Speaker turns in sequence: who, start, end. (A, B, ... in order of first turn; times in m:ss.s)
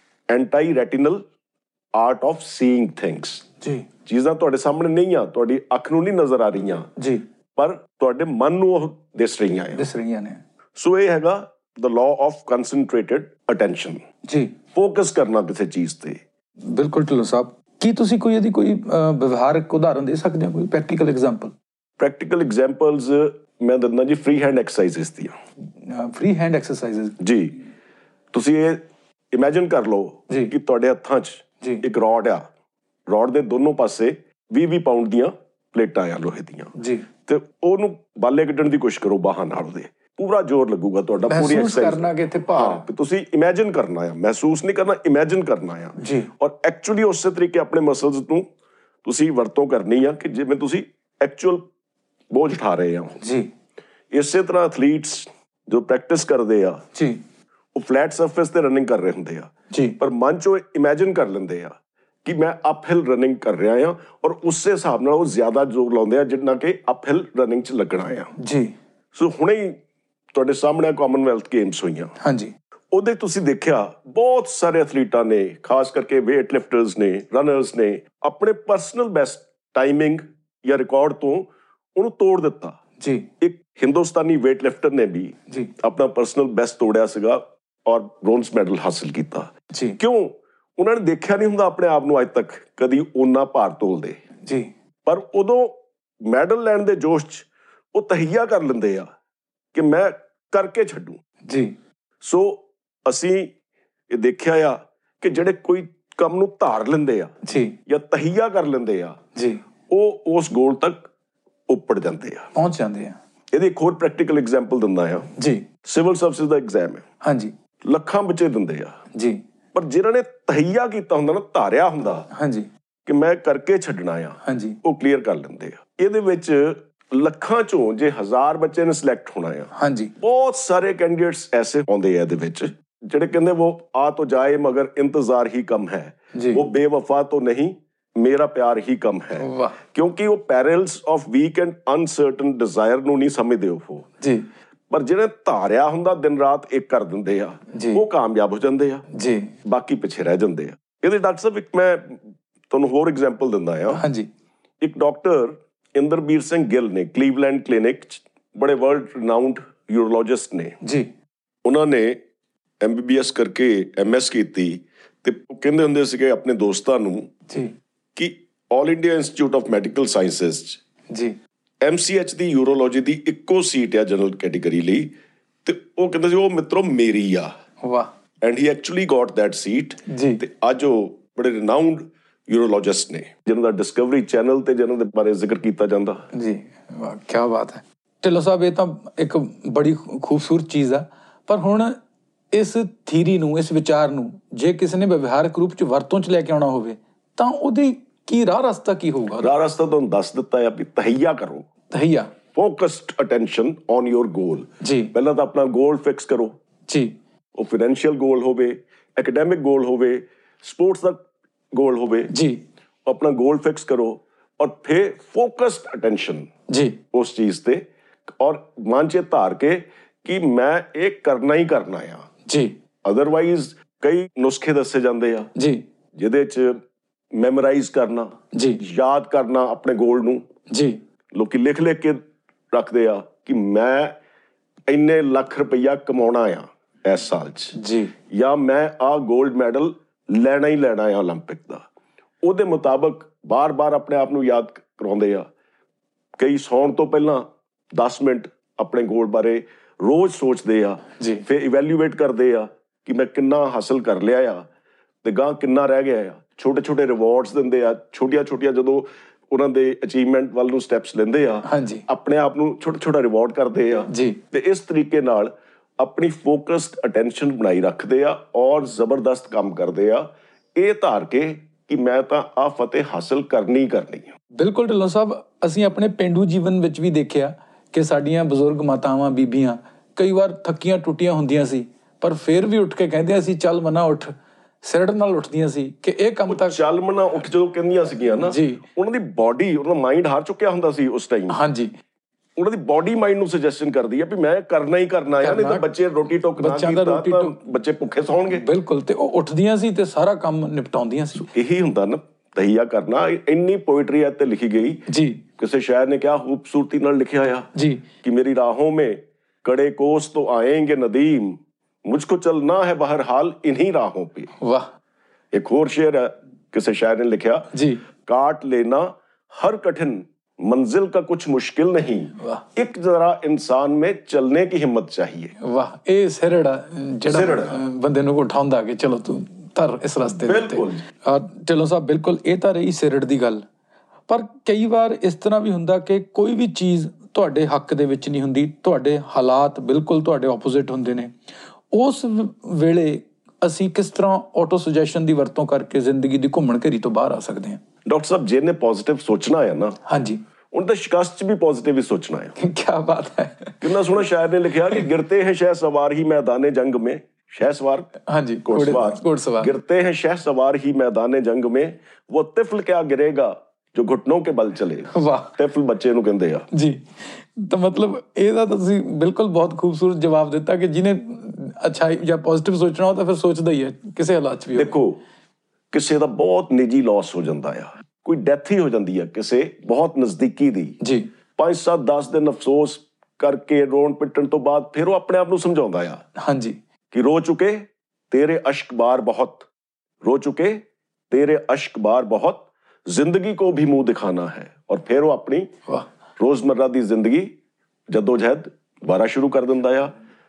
0:00.3-0:01.2 A
0:02.0-0:03.4 A
0:03.6-0:03.9 B
0:04.1-0:06.9 A
0:07.0-0:07.2 B
0:07.6-0:09.8 A
0:09.7-0:10.4 B
0:10.8-0:14.0 A
0:14.3-0:14.6 B
0:14.8-0:16.2 A
0:16.6-0:21.5 B
0:22.0-0:25.4 A
0:25.7-0:27.2 B
0:27.2-0:27.6 A
0:28.3-0:28.8 A
0:29.3-0:32.5 A
0:33.1-0:36.7 A
0:36.8-0:37.1 B
0:37.3-0:48.5 A
0:41.3-0:42.8 B
0:46.0-0:46.3 B
0:49.0-0:51.6 A
0:52.3-0:53.2 A
0:53.2-0:53.5 B
0:54.1-0:56.8 A
0:57.0-0:57.2 B
0:57.8-1:08.3 A
0:59.7-1:00.0 B
1:08.4-1:08.7 B
1:09.1-1:09.8 A
1:10.3-1:12.1 A
1:12.2-1:12.5 B
1:12.9-1:22.8 A
1:23.0-1:23.3 B
1:23.4-1:34.2 A
1:29.7-1:30.0 B
1:34.4-1:34.7 B
1:35.1-1:39.1 A
1:39.7-1:41.2 A
1:41.5-1:41.7 B
1:42.2-1:43.5 A
1:44.1-1:47.3 A
1:47.5-1:47.8 B
1:47.9-1:49.2 A
1:49.4-1:49.6 B
1:49.9-1:51.1 A
1:51.7-1:52.5 A
1:52.6-1:53.2 B
1:53.5-1:55.3 A
1:55.4-1:55.7 B
1:55.8-1:57.0 A
1:57.2-1:57.5 B
1:57.8-1:59.0 A
1:59.1-1:59.4 B
1:59.7-2:02.3 A
2:02.3-2:02.7 B
2:03.1-2:24.1 A
2:04.4-2:04.8 B
2:09.8-2:10.1 B
2:16.3-2:16.6 B
2:19.4-2:19.8 B
2:24.2-2:24.5 B
2:24.9-2:29.0 A
2:27.7-2:28.0 B
2:29.1-2:29.5 B
2:29.6-2:34.0 A
2:33.9-2:34.3 B
2:34.8-2:40.8 A
2:40.8-2:41.1 B
2:41.6-2:42.2 A
2:42.8-2:47.3 A
2:48.2-2:50.8 A
2:51.1-2:51.4 B
2:51.8-2:55.1 A
2:55.6-2:57.5 A
2:57.8-2:58.1 B
2:58.4-3:06.2 A
3:00.1-3:00.4 B
3:06.3-3:12.0 B
3:12.5-3:19.5 B
3:19.4-3:21.7 A
3:21.9-3:22.3 B
3:22.5-3:26.5 A
3:24.8-3:25.1 B
3:26.9-3:27.2 B
3:27.6-3:32.3 A
3:32.3-3:32.6 B
3:33.1-3:36.5 A
3:36.7-3:37.0 B
3:37.1-3:37.8 A
3:38.4-3:42.3 A
3:42.5-3:42.8 B
3:43.0-3:45.5 A
3:45.6-3:45.8 B
3:46.2-3:46.8 A
3:47.4-3:50.4 A
3:48.5-3:48.8 B
3:50.7-3:51.0 B
3:51.3-3:52.2 A
3:52.7-3:54.2 A
3:54.9-3:57.8 A
3:57.8-3:58.1 B
3:58.3-4:01.8 A
4:02.4-4:05.5 A
4:06.4-4:14.6 A
4:11.2-4:11.4 B
4:15.2-4:34.3 A
4:21.7-4:22.0 B
4:24.1-4:24.4 B
4:34.6-4:46.8 B
4:46.5-4:51.6 A
4:48.4-4:48.8 B
4:51.5-4:51.9 B
4:52.6-4:58.6 A
4:55.4-4:55.8 B
4:56.6-4:57.6 B
4:58.5-5:01.5 B
5:01.4-5:05.0 A
5:05.1-5:05.4 B
5:05.6-5:07.7 A
5:07.8-5:08.0 B
5:08.2-5:14.5 A
5:14.6-5:14.9 B
5:15.5-5:17.7 A
5:17.7-5:18.0 B
5:18.3-5:25.5 A
5:25.6-5:33.6 B
5:27.3-5:27.8 A
5:30.3-5:31.0 A
5:34.3-5:41.3 B
5:41.9-5:47.8 B
5:48.1-5:50.0 A
5:50.1-5:50.4 B
5:50.7-5:52.6 A
5:52.6-5:53.8 B
5:53.8-5:58.1 A
5:58.3-5:59.8 B
5:58.6-6:06.7 A
6:05.1-6:05.5 B
6:06.7-6:15.0 B
6:14.8-6:15.2 A
6:15.9-6:21.0 A
6:21.0-6:21.3 B
6:21.6-6:26.2 A
6:26.4-6:26.8 B
6:27.1-6:29.7 A
6:30.2-6:35.7 A
6:36.4-6:37.5 A
6:38.1-6:40.1 A